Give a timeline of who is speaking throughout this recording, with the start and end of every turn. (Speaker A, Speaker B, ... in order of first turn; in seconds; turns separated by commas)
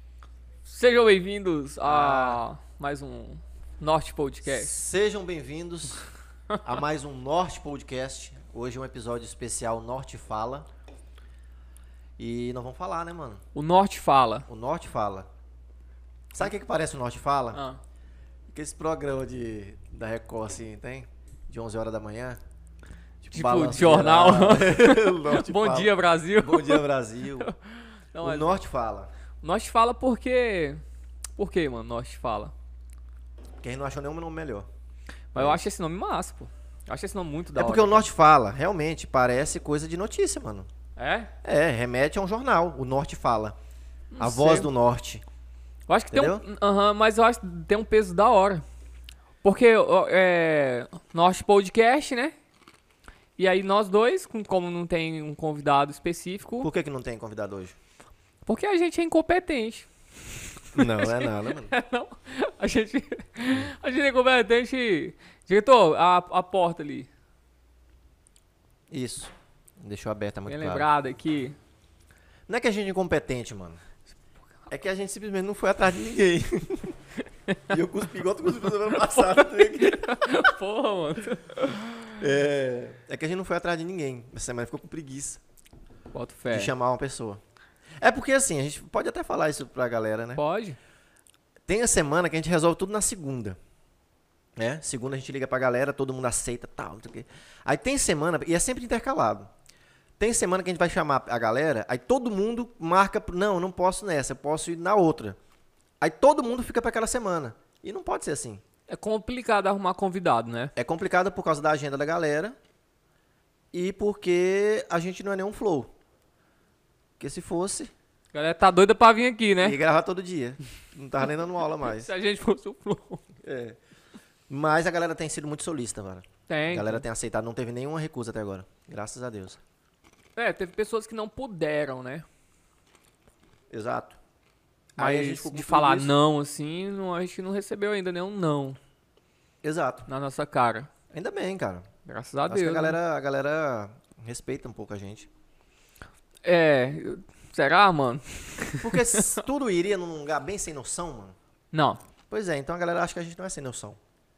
Speaker A: 0.7-4.8, Speaker B: 1.8-2.4, Speaker B: 4.4-6.0, Speaker B: 6.6-10.7, Speaker B: 12.2-13.4, Speaker A: 13.6-14.5, Speaker B: 14.5-15.3, Speaker B: 16.3-17.6, Speaker A: 17.5-17.8, Speaker B: 18.5-22.4, Speaker B: 23.2-27.5, Speaker A: 23.3-26.9, Speaker A: 27.4-28.6, Speaker B: 28.2-29.1, Speaker A: 29.4-30.8, Speaker A: 31.4-32.5, Speaker B: 33.6-34.7, Speaker A: 35.3-38.1, Speaker B: 35.4-35.7, Speaker B: 37.5-40.7, Speaker A: 41.0-41.3, Speaker B: 41.4-43.6, Speaker A: 44.1-44.7, Speaker B: 44.2-45.2, Speaker A: 45.9-48.6, Speaker B: 46.1-46.4, Speaker A: 49.4-52.3, Speaker A: 53.4-56.7, Speaker B: 56.6-57.8, Speaker A: 58.5-59.9, Speaker A: 60.6-67.1, Speaker B: 60.8-61.7, Speaker B: 68.9-70.9, Speaker A: 70.5-71.6, Speaker B: 72.5-73.8, Speaker B: 74.7-77.0, Speaker B: 77.7-80.2, Speaker A: 78.9-82.1, Speaker B: 82.2-85.4, Speaker A: 86.1-86.7, Speaker B: 86.5-87.4, Speaker B: 88.0-90.4, Speaker A: 90.4-90.8, Speaker B: 91.7-93.6, Speaker B: 94.6-99.5, Speaker B: 100.2-105.4, Speaker B: 106.0-108.6, Speaker A: 108.9-110.7, Speaker B: 110.8-112.6, Speaker B: 113.7-115.9, Speaker B: 117.2-117.9, Speaker A: 118.3-119.8, Speaker B: 119.6-122.1, Speaker A: 121.9-123.2, Speaker B: 123.4-123.8, Speaker B: 124.5-129.6, Speaker A: 126.5-127.0, Speaker A: 130.4-132.3, Speaker B: 133.7-134.2, Speaker B: 135.0-136.1, Speaker A: 135.0-138.8, Speaker B: 139.6-140.1, Speaker A: 140.1-140.9, Speaker B: 141.1-141.9, Speaker A: 142.1-143.0, Speaker B: 142.5-145.3, Speaker A: 146.4-149.4, Speaker B: 148.8-151.4, Speaker A: 151.7-152.0, Speaker B: 152.3-154.0